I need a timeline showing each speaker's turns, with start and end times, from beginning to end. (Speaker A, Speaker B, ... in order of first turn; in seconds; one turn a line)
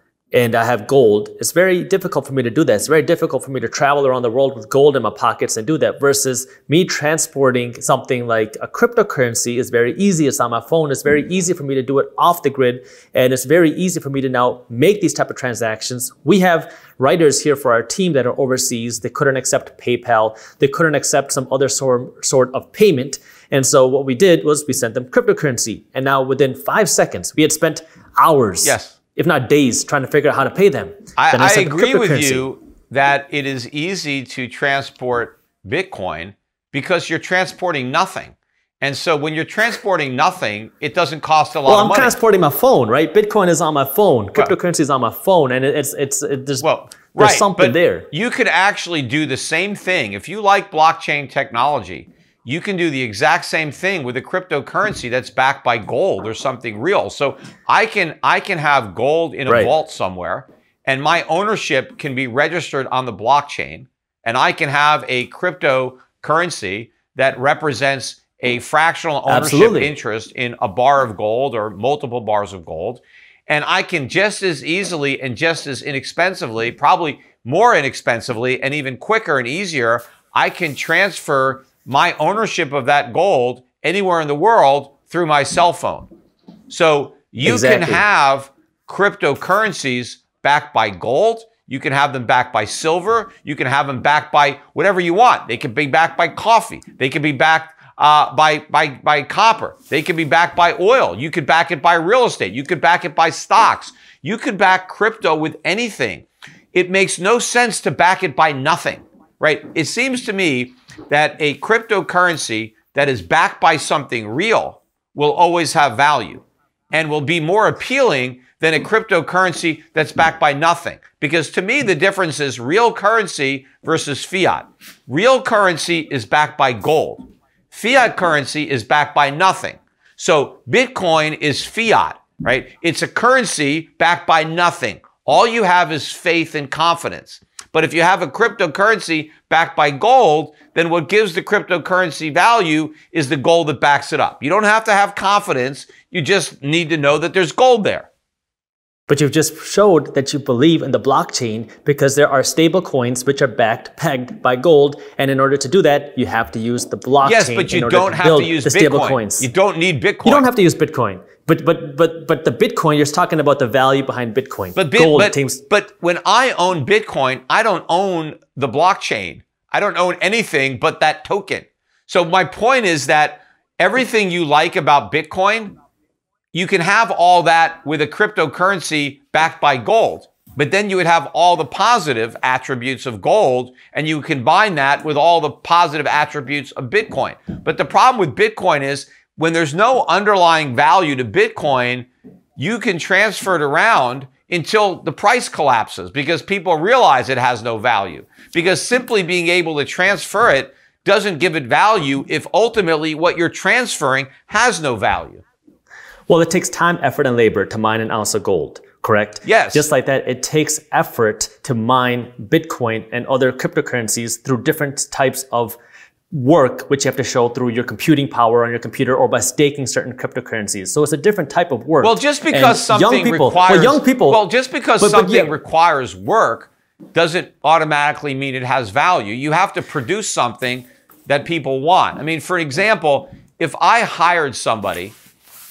Speaker A: 0.3-32.5
Speaker B: 28.6-28.9
Speaker B: 31.2-42.1
Speaker A: 41.7-48.1
Speaker B: 46.6-86.1
Speaker A: 59.5-59.7
Speaker A: 69.3-69.9
Speaker B: 86.7-148.1
Speaker A: 87.4-88.0
Speaker A: 149.1-159.5
Speaker B: 157.2-160.5
Speaker A: 160.2-165.6
Speaker B: 164.8-175.8
Speaker B: 176.5-205.4
Speaker A: 206.3-215.8
Speaker B: 209.4-209.9
Speaker A: 216.3-224.4
Speaker B: 222.0-235.1
Speaker A: 225.0-225.5